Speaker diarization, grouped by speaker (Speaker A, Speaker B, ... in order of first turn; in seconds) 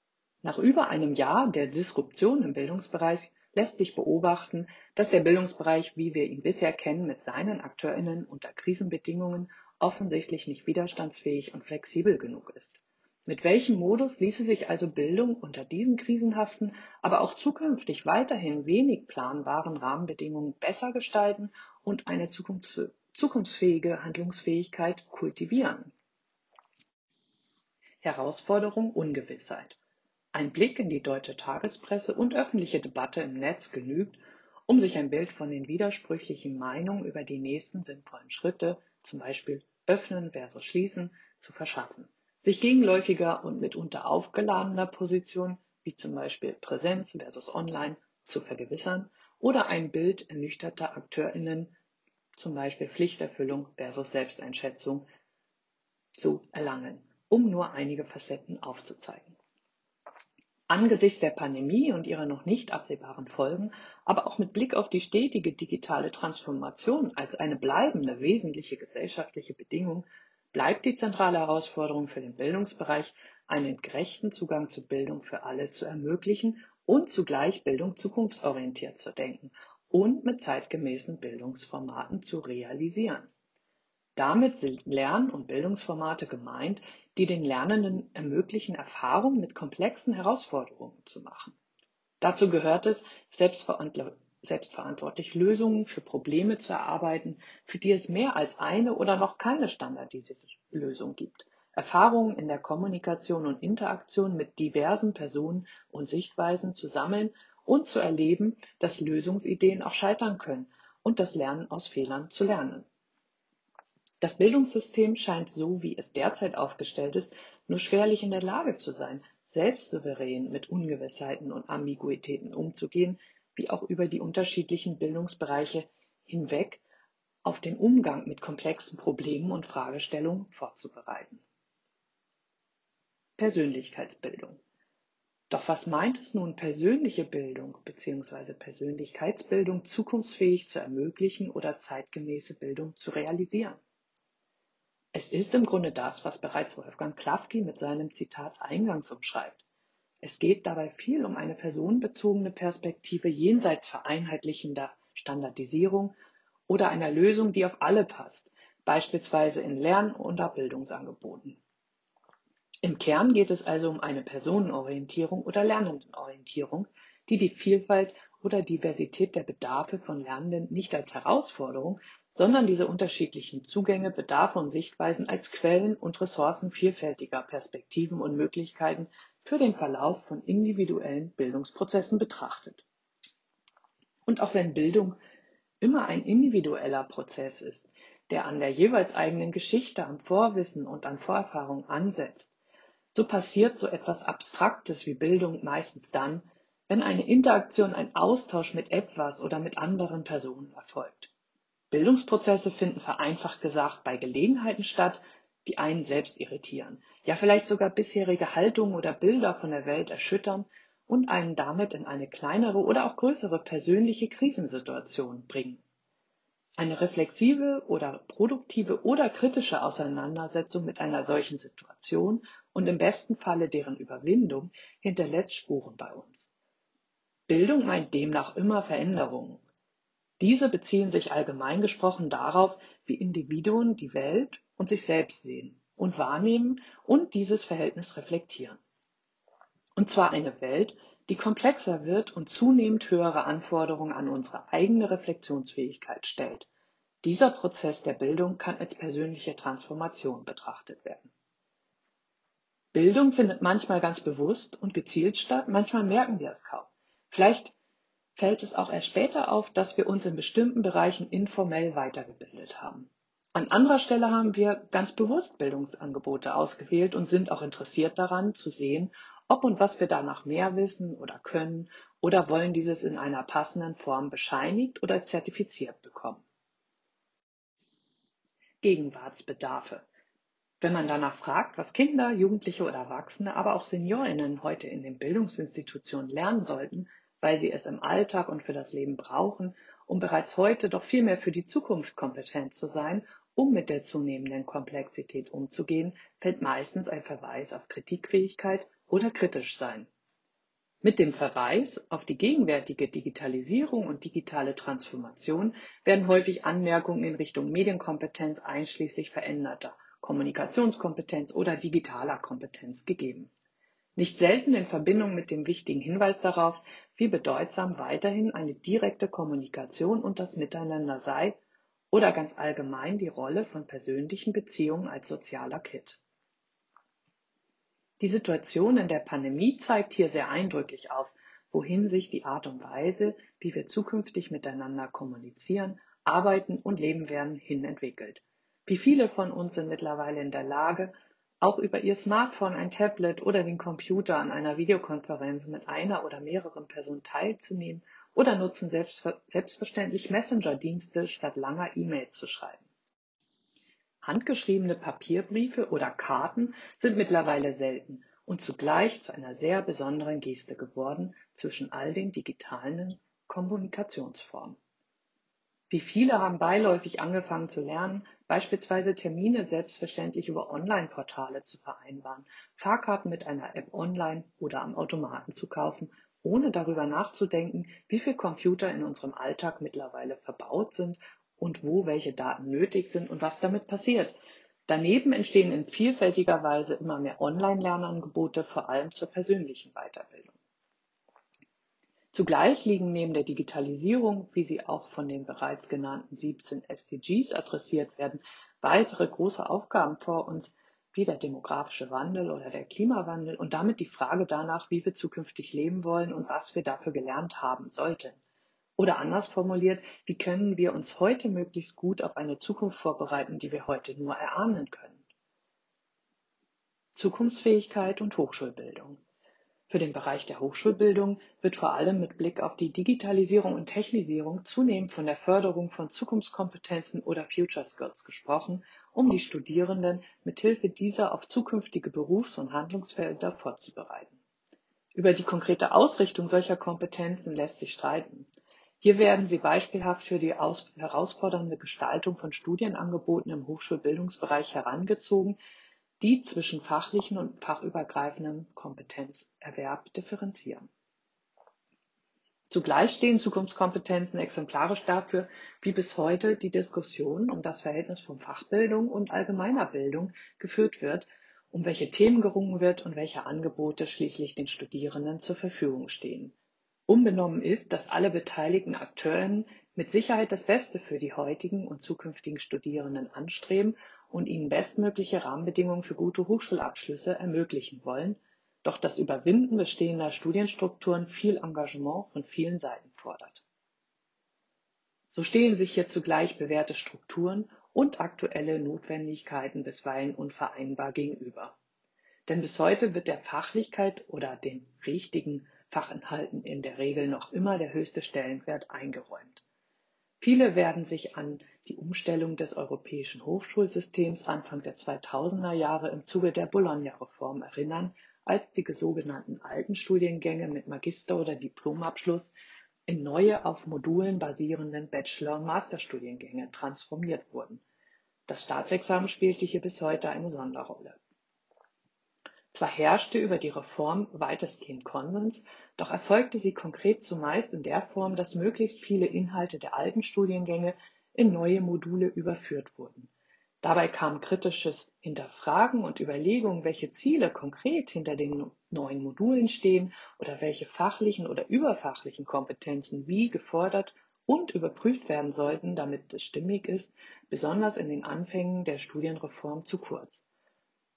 Speaker A: 0.4-25.9, 28.0-29.8, 30.3-51.7, 52.4-55.1, 56.1-59.4, 60.7-83.3, 84.2-91.6, 92.2-112.9, 114.2-126.8, 127.4-131.4, 133.4-134.6, 135.5-143.8, 145.1-149.6, 150.2-156.1, 156.7-161.6, 162.8-182.8, 184.3-185.2, 185.8-192.5, 193.1-201.3, 201.9-215.8, 216.8-226.5, 227.5-229.6, 230.4-238.8, 240.0-246.7, 247.2-251.3, 252.9-257.7, 258.4-276.4, 278.8-280.1, 280.8-300.1, 301.0-313.5, 314.2-321.6, 322.1-326.2, 328.2-352.8, 354.2-364.8, 365.9-384.3, 384.9-390.6, 392.3-408.4, 409.0-415.2, 417.1-419.2, 419.9-434.4, 435.1-438.5, 439.0-445.6, 446.2-450.9, 452.7-466.5, 467.1-483.6, 485.3-491.8, 492.5-499.6, 500.4-512.5, 513.1-517.8, 518.5-521.2, 522.7-533.3, 533.8-550.4